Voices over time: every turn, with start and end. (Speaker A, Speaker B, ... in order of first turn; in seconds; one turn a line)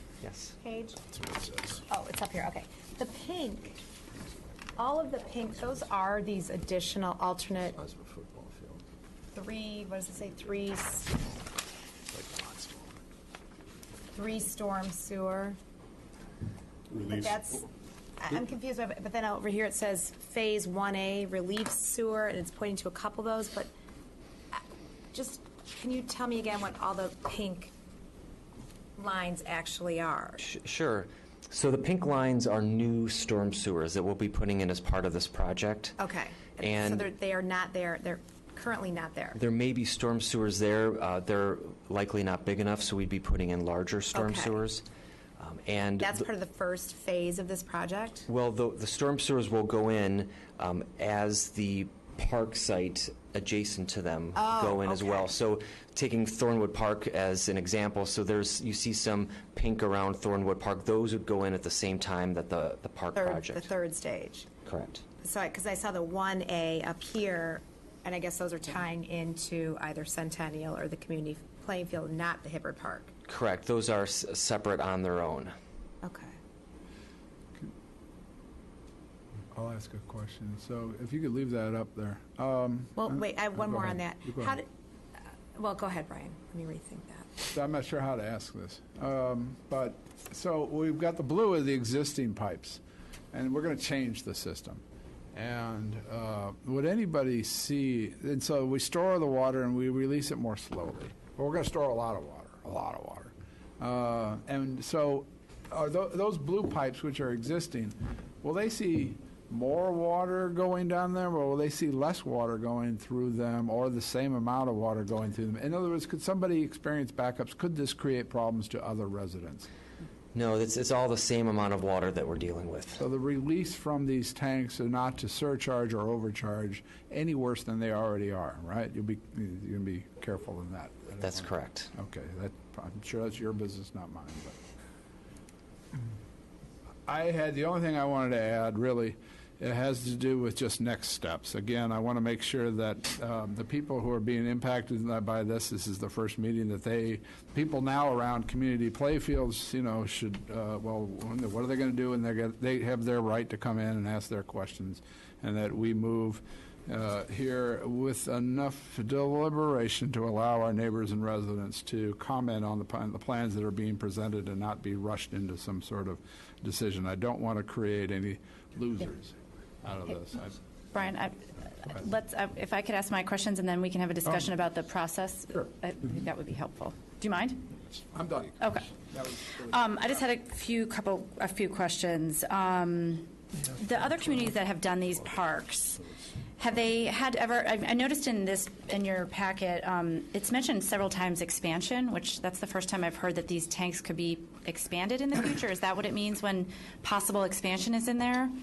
Speaker A: 0.2-0.5
Speaker B: 0.6-1.0
Speaker C: 1.1-1.8
Speaker B: 1.9-3.8
Speaker B: 4.8-7.8
Speaker C: 7.8-8.8
Speaker B: 9.3-11.2
Speaker C: 12.1-12.9
Speaker B: 14.1-15.6
Speaker C: 17.0-17.3
Speaker B: 17.0-17.7
Speaker B: 18.2-23.7
Speaker B: 25.1-27.7
Speaker B: 29.0-30.4
Speaker A: 30.4-36.0
Speaker B: 36.0-39.4
Speaker A: 36.6-37.0
Speaker A: 39.4-44.8
Speaker B: 44.1-44.6
Speaker A: 45.4-46.2
Speaker B: 46.0-48.3
Speaker A: 48.3-63.7
Speaker B: 54.4-55.3
Speaker B: 63.1-64.5
Speaker A: 64.7-65.0
Speaker B: 65.2-73.1
Speaker A: 73.3-75.5
Speaker B: 76.0-76.3
Speaker D: 79.5-84.6
Speaker B: 83.0-84.7
Speaker B: 85.5-87.3
Speaker D: 87.5-92.8
Speaker D: 93.3-94.8
Speaker D: 95.3-119.7
Speaker A: 120.3-123.0
Speaker D: 123.0-134.6
Speaker A: 131.2-131.9
Speaker D: 137.1-170.6
Speaker E: 170.9-177.7
Speaker D: 178.0-179.8
Speaker E: 178.6-178.9
Speaker E: 179.6-198.5